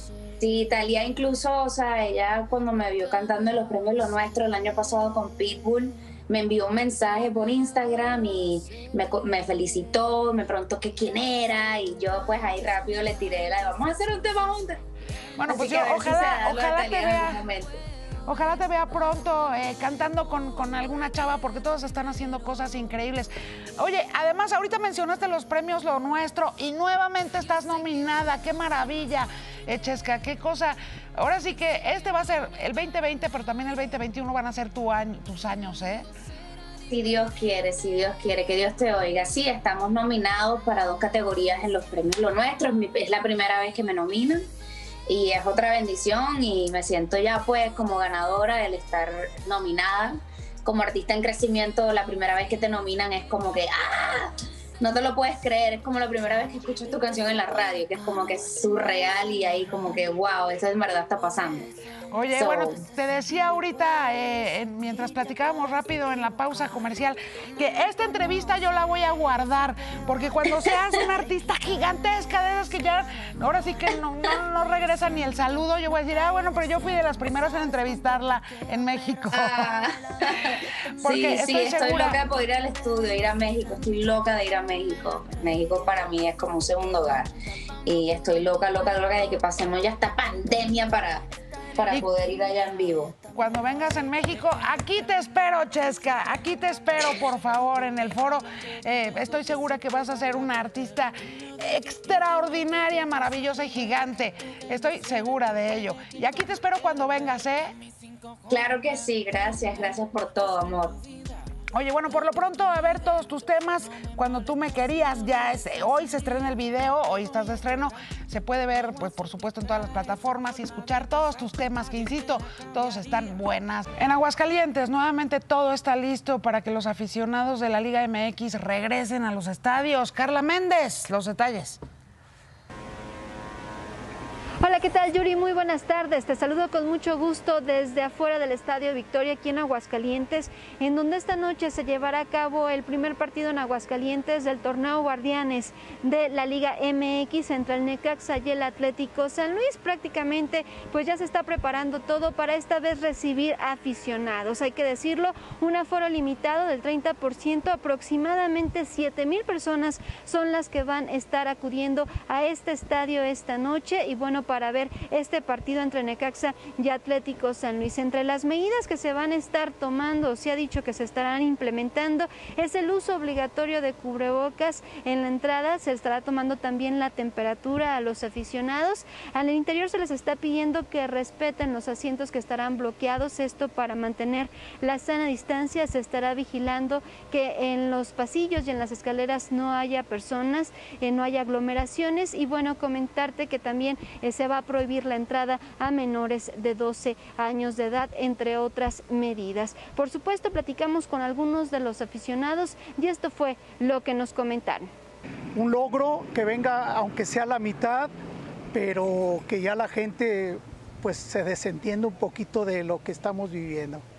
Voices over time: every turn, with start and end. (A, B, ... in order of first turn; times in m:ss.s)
0:00.4-0:14.8 A
0:15.4-0:17.4 B
0:15.5-0:17.8 A
0:18.3-0:36.1 B
0:36.9-0:44.4 A
0:45.1-1:01.7 A
1:02.1-1:19.6 B
1:02.3-1:02.8 A
1:19.3-1:27.3 A
1:21.0-1:22.2 B
1:27.8-1:31.2 A
1:31.8-1:33.1 A
1:33.3-1:47.7 B
1:48.5-1:51.0 A
1:51.7-2:11.8 B
2:14.6-3:24.9 C
3:25.5-3:28.1 D
3:28.7-3:34.0 D